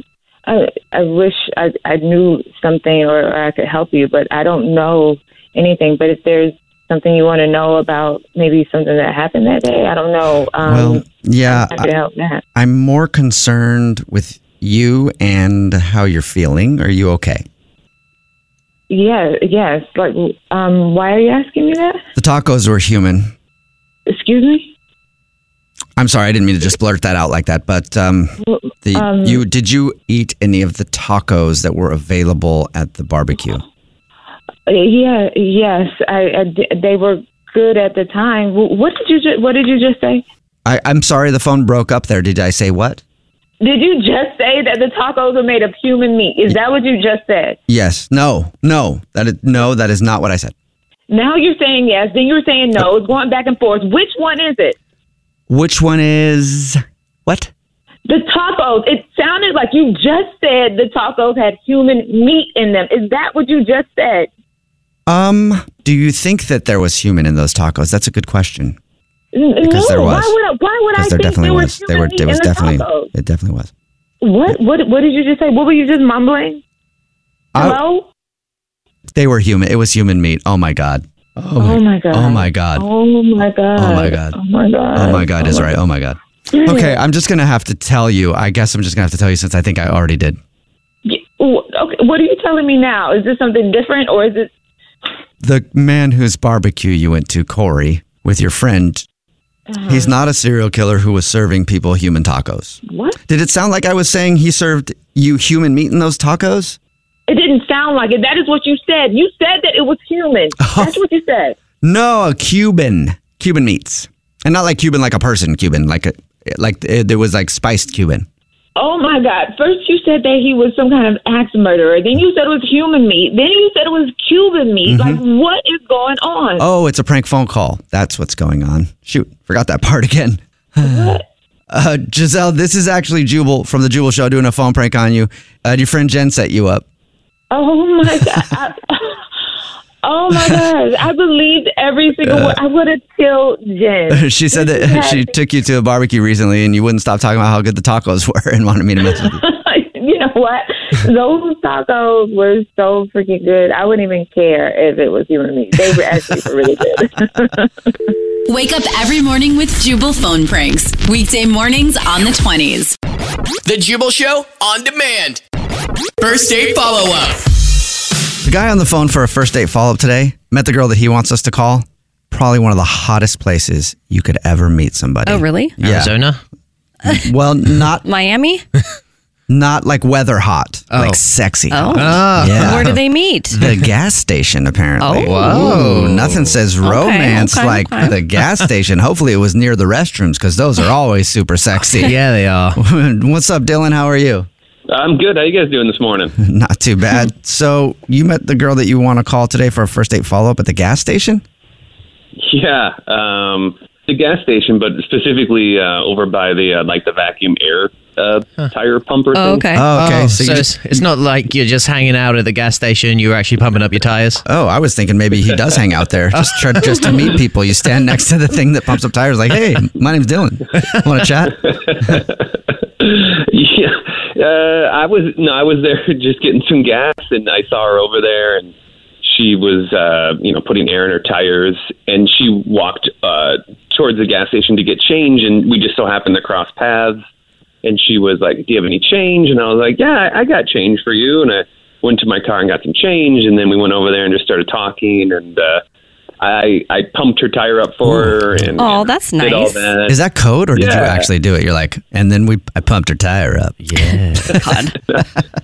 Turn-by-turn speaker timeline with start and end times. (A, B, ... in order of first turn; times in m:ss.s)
0:00.5-0:12.4 A
0:10.6-0:11.9 B
0:12.6-0:17.5 B
0:18.9-0:22.0 A
0:22.2-0:23.3 B
0:24.1-0:24.7 A
0:26.0-0:33.6 B
0:28.4-0:29.4 A
0:34.7-0:40.2 A
0:40.6-0:43.0 B
0:43.6-0:47.6 A
0:47.7-0:50.5 B
0:51.1-0:54.8 A
0:55.5-0:57.5 B
0:58.1-1:04.3 A
1:05.1-1:08.8 B
1:09.3-1:13.1 A
1:09.6-1:10.4 B
1:10.9-1:13.7 B
1:14.2-1:16.6 A
1:17.5-1:17.8 B
1:17.6-1:18.1 A
1:19.1-1:22.9 B
1:21.6-1:25.7 A
1:23.8-1:24.4 B
1:24.9-1:30.4 B
1:26.6-1:27.0 A
1:31.0-1:34.5 A
1:35.4-1:39.0 B
1:39.7-1:40.1 A
1:39.9-1:46.8 B
1:42.9-1:43.2 A
1:47.3-1:51.6 A
1:50.6-1:51.0 B
1:51.8-1:58.3 B
1:58.8-2:06.7 A
2:04.8-2:05.2 B
2:06.6-2:16.8 B
2:10.8-2:11.3 A
2:17.5-2:19.1 A
2:20.0-2:25.3 A
2:20.3-2:20.7 B
2:22.2-2:22.6 B
2:24.1-2:29.4 B
2:29.3-2:37.7 A
2:38.5-2:42.9 C
2:43.6-2:45.4 D
2:46.2-2:47.4 D
2:48.4-2:56.1 B
2:55.2-2:55.8 E
2:55.8-2:56.4 F
2:57.1-2:58.0 B
2:58.0-2:58.6 E
2:59.5-3:03.0 B
3:00.9-3:01.2 F
3:01.7-3:03.6 E
3:02.0-3:03.0 F
3:03.5-3:03.9 F
3:03.6-3:12.2 B
3:05.0-3:05.8 E
3:05.2-3:06.6 F
3:06.8-3:08.2 E
3:12.0-3:12.8 F
3:12.8-3:14.5 B
3:14.9-3:16.3 G
3:16.4-3:21.4 B
3:22.4-3:29.7 G
3:29.3-3:29.9 E
3:29.8-3:30.7 B
3:30.0-3:34.4 F
3:34.5-3:42.2 B
3:36.4-3:36.9 F
3:41.9-3:42.4 G
3:43.0-3:48.7 G
3:49.2-3:57.2 G
3:57.8-4:05.8 G
4:06.4-4:10.2 G
4:08.1-4:08.3 B
4:08.8-4:09.9 E
4:10.1-4:13.8 B
4:10.7-4:11.3 G
4:13.8-4:14.7 F
4:14.6-4:14.9 E